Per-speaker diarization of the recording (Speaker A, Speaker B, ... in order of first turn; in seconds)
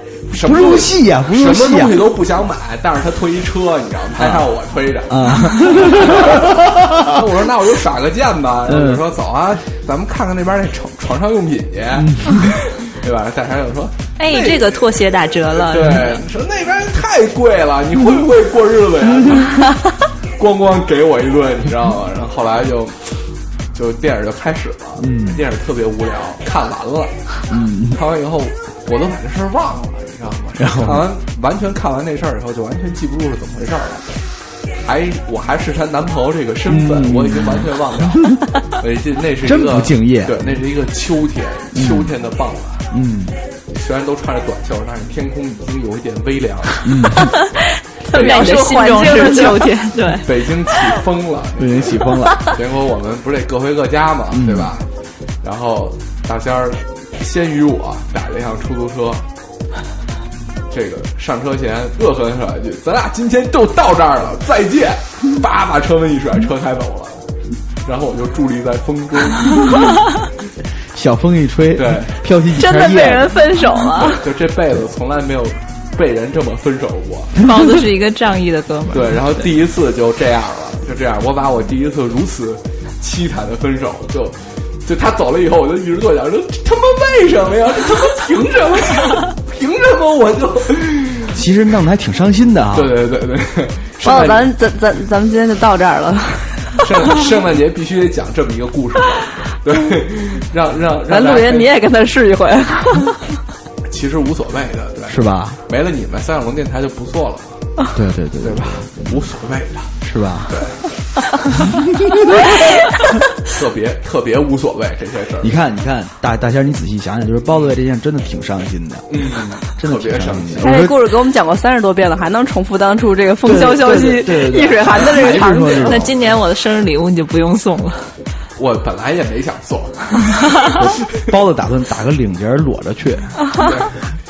Speaker A: 0.3-14.9, 15.5-19.7, 20.4-23.2, 23.7-27.4, 27.9-34.1, 34.8-42.9, 43.7-47.3, 48.1-48.7, 50.2-54.9, 55.4-59.2, 60.7-67.2, 67.8-69.8, 71.7-72.2, 74.2-77.4, 78.9-91.3, 92.7-94.5, 96.8-101.7, 103.8-107.7, 108.4-109.9, 110.5-110.8, 113.4-115.5, 119.1-120.9, 128.6-130.7, 133.6-133.9
Speaker B: 0.4-2.1, 4.2-4.5, 5.1-7.2, 8.7-9.1, 11.9-12.5, 25.0-25.4, 27.5-28.0, 30.6-31.1, 36.6-38.4, 39.4-40.5, 41.7-42.1, 42.9-43.4, 46.8-47.3, 51.6-52.4, 54.3-54.7, 70.9-73.4, 91.3-93.0, 105.1-105.6, 107.9-109.1, 110.0-110.6, 111.6-112.1, 115.4-121.0, 123.4-126.1, 131.2-133.3
Speaker C: 14.2-16.2, 48.0-50.9, 77.4-79.5, 125.8-128.1
Speaker D: 48.1-49.7, 72.5-74.2, 94.0-96.8, 101.1-103.2, 120.6-126.0